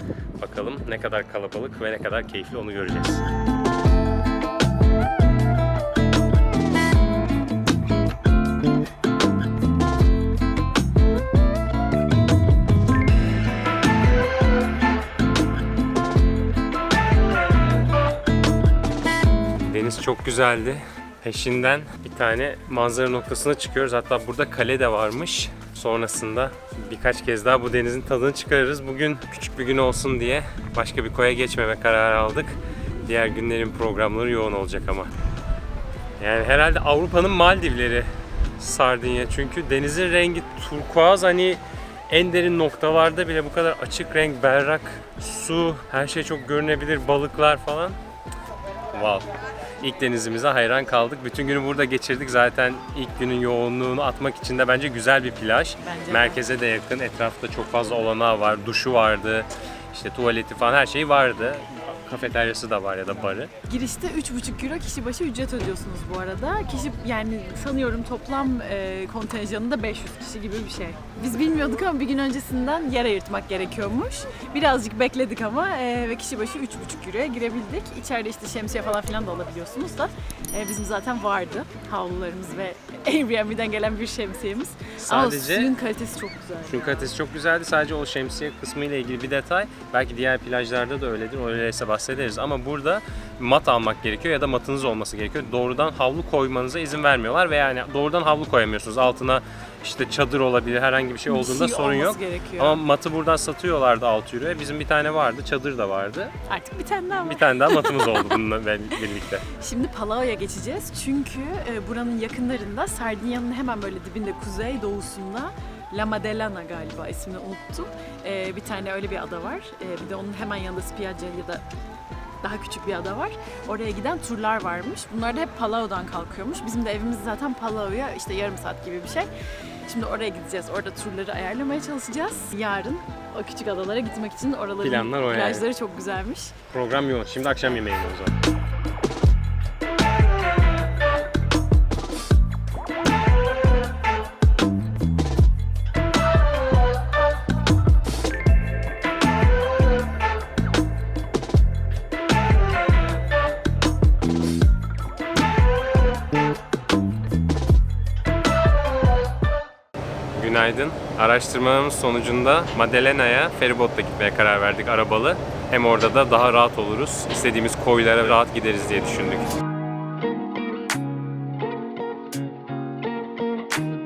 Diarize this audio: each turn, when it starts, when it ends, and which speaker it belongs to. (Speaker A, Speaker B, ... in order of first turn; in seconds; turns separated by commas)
Speaker A: 0.4-3.2, Speaker A: 19.5-35.1, Speaker A: 36.2-48.0, Speaker A: 48.9-49.2, Speaker A: 49.8-63.5, Speaker B: 55.8-56.4, Speaker B: 63.7-87.1, Speaker A: 85.0-85.7, Speaker A: 86.7-106.3, Speaker B: 101.3-102.8, Speaker B: 106.5-108.4, Speaker A: 107.2-109.4, Speaker B: 109.5-121.6, Speaker B: 122.4-129.3, Speaker B: 129.9-136.5, Speaker A: 134.8-135.7, Speaker A: 136.7-138.3, Speaker A: 160.3-169.5